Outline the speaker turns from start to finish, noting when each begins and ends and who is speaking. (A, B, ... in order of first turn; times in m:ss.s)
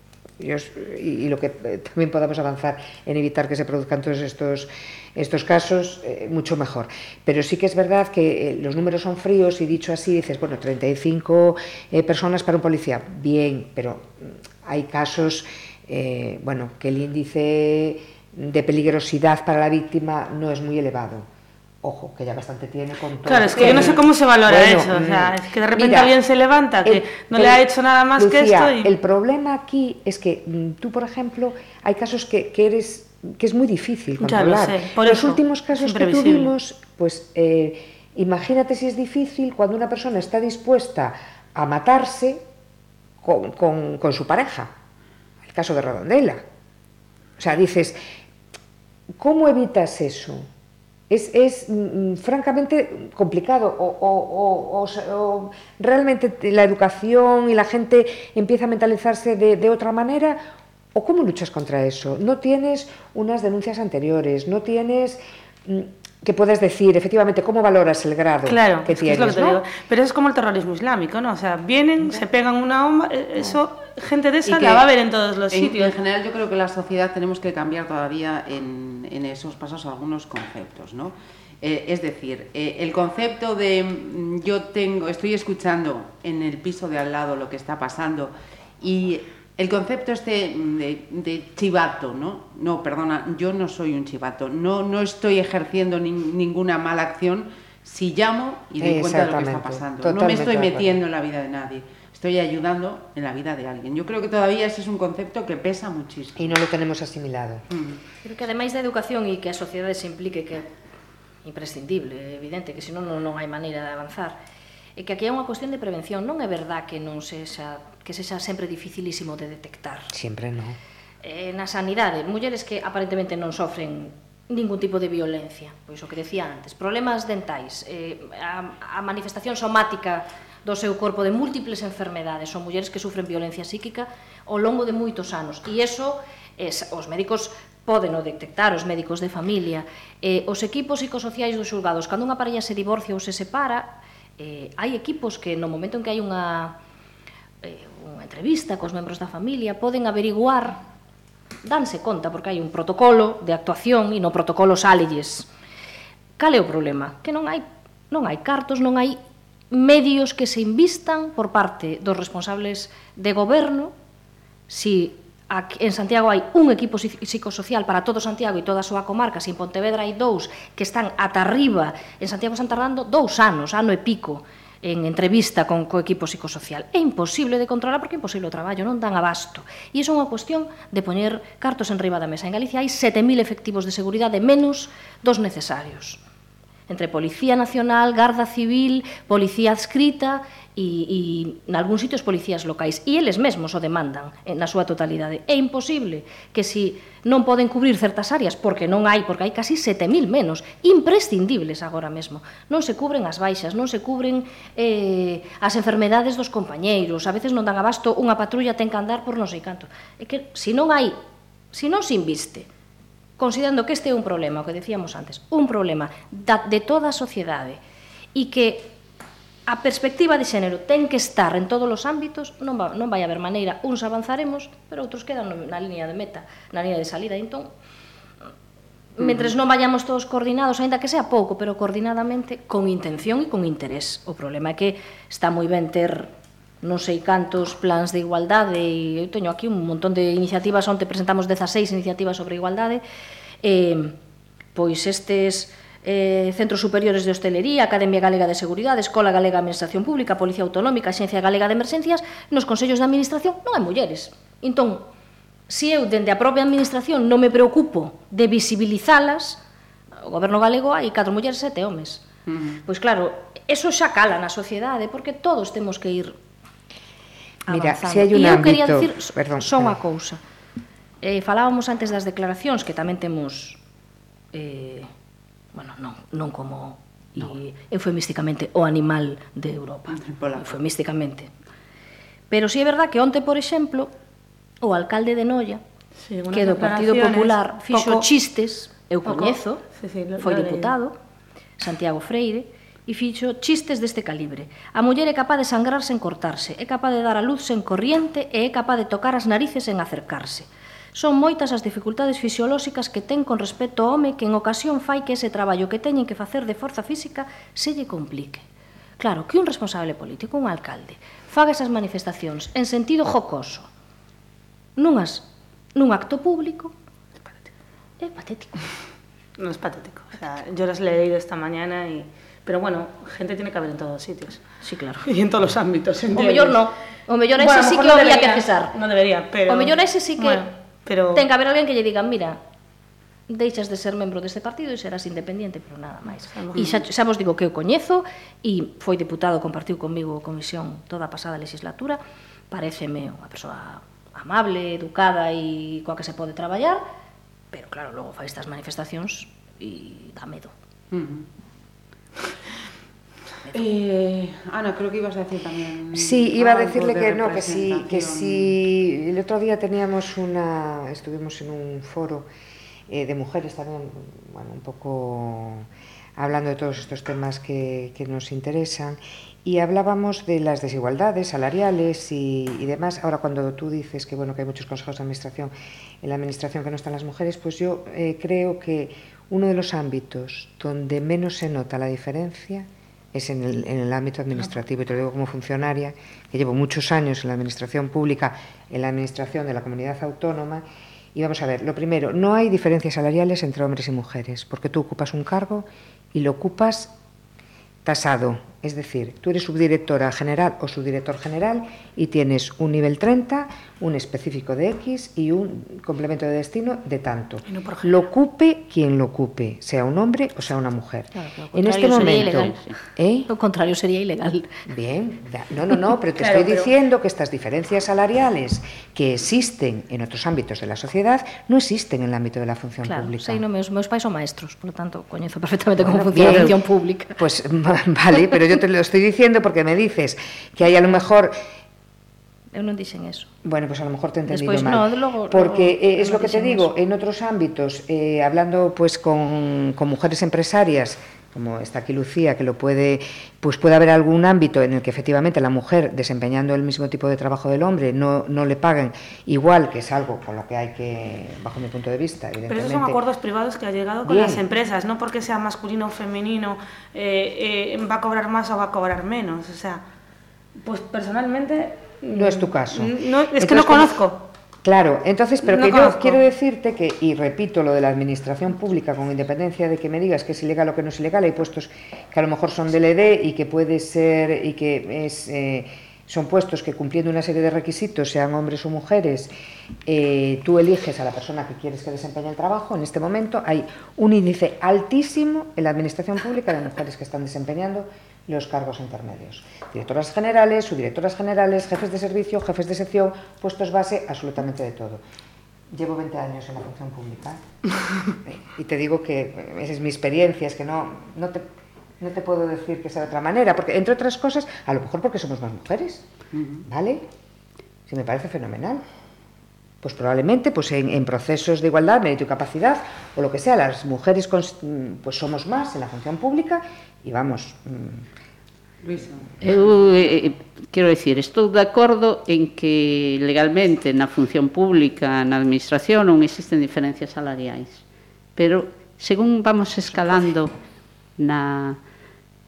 0:00.4-0:21.2 A
0:21.8-0:26.2 A
0:23.3-0:28.9 B
0:26.8-0:27.6 A
0:28.2-0:42.4 A
0:34.2-0:36.5 B
0:43.2-0:44.7 A
0:45.4-0:46.4 A
0:47.4-0:48.0 A
0:49.2-0:50.5 A
0:51.1-1:00.4 A
1:00.9-1:09.6 A
1:08.5-1:16.0 B
1:14.5-1:14.9 C
1:15.5-1:46.6 C
1:38.8-1:41.0 A
1:46.4-1:47.7 A
1:47.7-1:48.0 C
1:48.2-1:50.7 D
1:51.4-1:54.4 D
1:55.0-2:00.1 D
2:00.1-2:00.8 A
2:01.2-2:26.8 D
2:27.6-2:30.8 D
2:31.6-2:35.5 D
2:36.4-2:39.2 D
2:39.7-2:43.9 D
2:44.7-3:06.2 D
3:06.9-3:31.2 D
3:31.7-3:32.7 D
3:33.4-3:37.8 D
3:38.4-3:39.0 D
3:39.7-3:47.7 D
3:49.2-4:03.0 D
4:03.6-4:04.2 D
4:04.8-4:15.1 D
4:15.7-4:19.6 D
4:20.2-4:22.2 D
4:22.5-4:22.8 C
4:22.8-4:26.4 D
4:27.7-4:30.4 D
4:27.7-4:30.0 A
4:31.2-4:33.8 D
4:34.5-4:35.1 D
4:35.7-4:41.5 D
4:40.1-4:40.8 C
4:42.5-4:44.1 D
4:44.8-4:45.8 D
4:46.2-4:48.3 B
4:46.5-4:49.8 D
4:49.3-4:51.0 B
4:50.4-4:51.1 D
4:51.8-5:08.6 D
5:09.2-5:13.9 D
5:15.0-5:16.9 D
5:18.2-5:18.9 D
5:19.6-5:24.6 B
5:24.8-5:25.3 D
5:25.2-5:26.8 B
5:26.3-5:29.0 D
5:27.6-5:31.4 B
5:29.7-5:30.7 D
5:31.3-5:32.6 D
5:33.5-5:42.2 D
5:36.5-5:37.0 B
5:42.7-5:47.0 D
5:47.7-5:50.7 D
5:51.1-5:51.5 C
5:53.7-5:58.7 C
5:56.1-6:02.5 A
6:03.1-6:37.1 A
6:38.0-6:53.5 A
6:47.7-6:48.2 B
6:51.4-6:52.8 D
6:52.1-6:53.0 E
6:53.5-6:54.7 D
6:54.9-7:03.6 A
6:56.4-6:56.9 B
7:03.0-7:07.4 D
7:06.0-7:06.8 A
7:07.4-7:11.6 A
7:12.7-7:13.5 D
7:13.6-7:33.2 A
7:14.5-7:16.9 D
7:32.7-7:40.0 B
7:34.2-7:34.6 A
7:40.8-7:44.5 B
7:42.3-7:44.1 A
7:44.8-7:59.5 A
7:45.7-7:46.4 B
8:00.1-8:15.2 A
8:15.9-8:17.6 A
8:18.4-8:21.7 A
8:22.2-8:26.3 A
8:26.5-8:26.8 C
8:26.9-8:27.3 A
8:28.1-8:29.0 A
8:30.0-8:38.3 A
8:39.0-8:39.5 C
8:39.6-8:48.0 E
8:48.6-8:50.7 E
8:51.4-8:52.0 E